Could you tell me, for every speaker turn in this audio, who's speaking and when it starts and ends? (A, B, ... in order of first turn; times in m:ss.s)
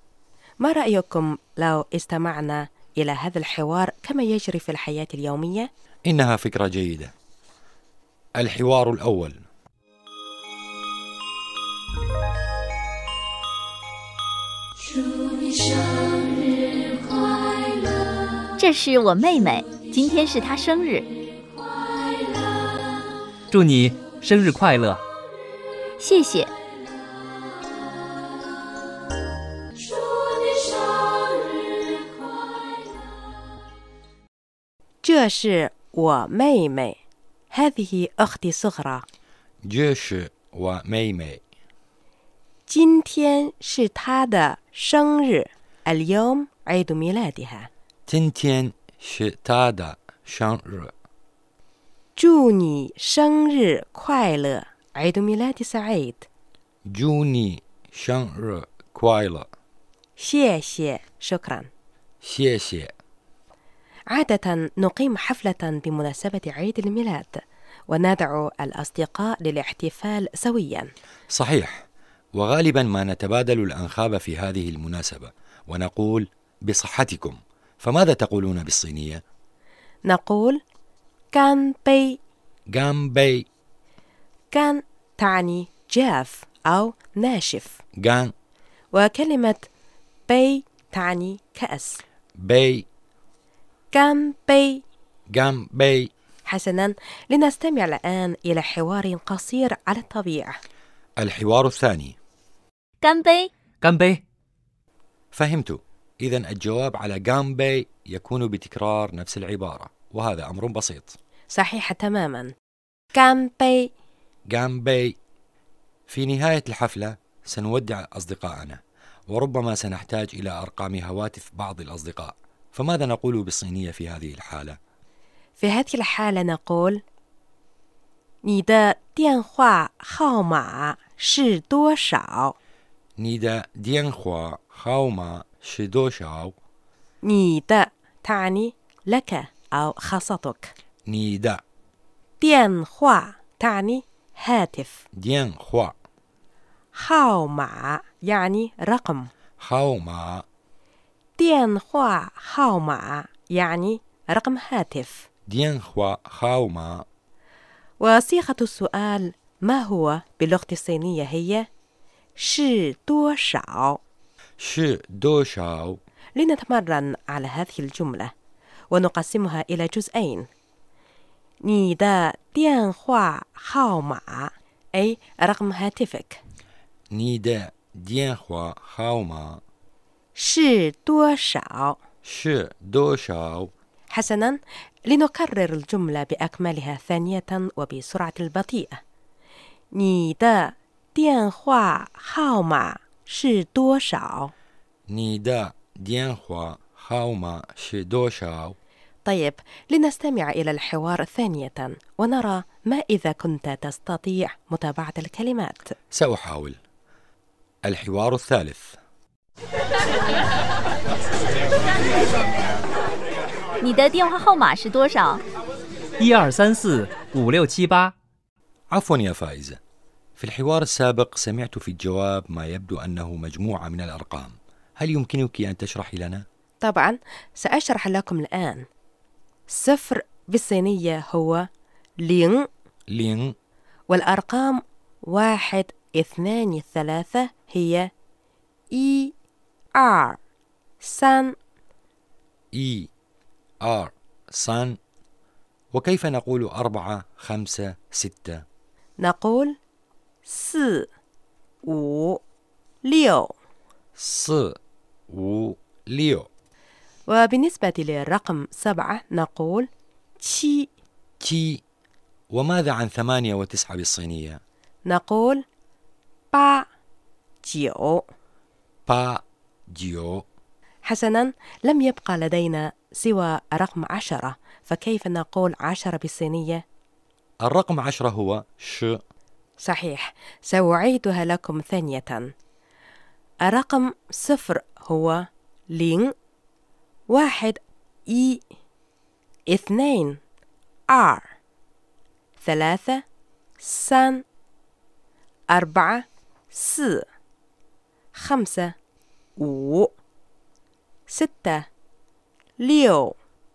0:00.6-0:05.7 A
0:06.1-0:07.1 B
0:08.4-0:09.4 B
0:18.6-0:21.1 C
0:23.5-0:25.0 D
0:26.0-0:26.5 C
0:35.0-0:37.0 A
0:37.5-0:39.0 A
0:39.6-0:41.4 B
0:42.7-0:47.7 A
0:48.1-0:50.9 B
0:52.2-0:56.2 A
0:56.9-0:59.5 B
1:00.2-1:01.7 A
1:02.2-1:02.9 B
1:04.1-1:10.9 A
1:11.3-1:11.8 B
1:12.3-1:19.2 B
1:20.1-1:20.6 A
1:21.3-1:22.2 A
1:22.7-1:23.4 B
1:24.5-1:27.8 A
1:28.0-1:28.3 B
1:28.9-1:29.6 A
1:30.3-1:32.0 A
1:32.4-1:32.8 B
1:33.9-1:34.8 A
1:35.3-1:36.1 B
1:36.5-1:40.5 A
1:41.2-1:42.1 B
1:43.0-1:43.5 C
1:43.8-1:44.2 D
1:45.3-1:51.1 B
1:51.5-1:52.5 A
1:53.1-1:53.9 A
1:54.5-1:55.2 B
1:56.1-2:04.8 B
2:05.6-2:07.0 A
2:08.4-2:12.5 A
2:13.2-2:16.5 B
2:17.2-2:20.7 A
2:21.1-2:21.6 B
2:22.4-2:25.0 A
2:25.2-2:25.9 B
2:26.9-2:29.3 A
2:29.6-2:30.4 B
2:31.4-2:35.2 A
2:35.5-2:37.0 B
2:38.0-2:41.6 A
2:42.4-2:44.0 A
2:44.6-2:46.0 B
2:46.4-2:48.3 A
2:48.9-2:50.4 A
2:51.6-2:56.4 A
2:57.1-2:59.6 B
3:00.4-3:02.0 A
3:02.2-3:03.7 B
3:04.1-3:09.0 A
3:09.9-3:14.5 A
3:15.1-3:18.8 B
3:19.2-3:25.8 A
3:26.1-3:26.8 B
3:27.9-3:29.0 B
3:33.8-3:35.4 C
3:36.2-3:38.1 D
3:38.9-3:39.8 B
3:40.4-3:46.4 B
3:46.8-3:48.8 A
3:49.7-3:51.6 A
3:52.2-3:52.6 A
3:53.1-3:53.5 B
3:54.1-3:58.1 A
3:58.9-3:59.3 A
4:00.0-4:00.4 A
4:01.0-4:01.5 A
4:02.8-4:03.1 B
4:03.8-4:04.9 B
4:05.9-4:08.6 B
4:09.2-4:09.7 A
4:10.5-4:11.1 A
4:11.9-4:12.4 A
4:13.1-4:13.5 A
4:14.2-4:14.7 B
4:15.3-4:16.5 B
4:17.3-4:19.9 A
4:20.4-4:20.9 A
4:21.4-4:21.8 B
4:22.5-4:24.6 B
4:25.1-4:25.6 A
4:26.5-4:26.8 A
4:27.6-4:28.2 A
4:29.1-4:30.4 B
4:31.1-4:36.8 A
4:37.6-4:39.2 B
4:39.8-4:42.5 A
4:43.6-4:45.4 A
4:45.9-4:46.3 A
4:47.3-4:47.8 A
4:48.3-4:48.6 A
4:49.7-4:50.3 A
4:51.1-4:51.5 A
4:52.6-4:53.2 A
4:53.8-4:54.4 A
4:55.7-4:57.2 A
4:58.3-4:58.9 A
4:59.6-5:00.1 A
5:01.3-5:01.9 A
5:02.8-5:03.3 A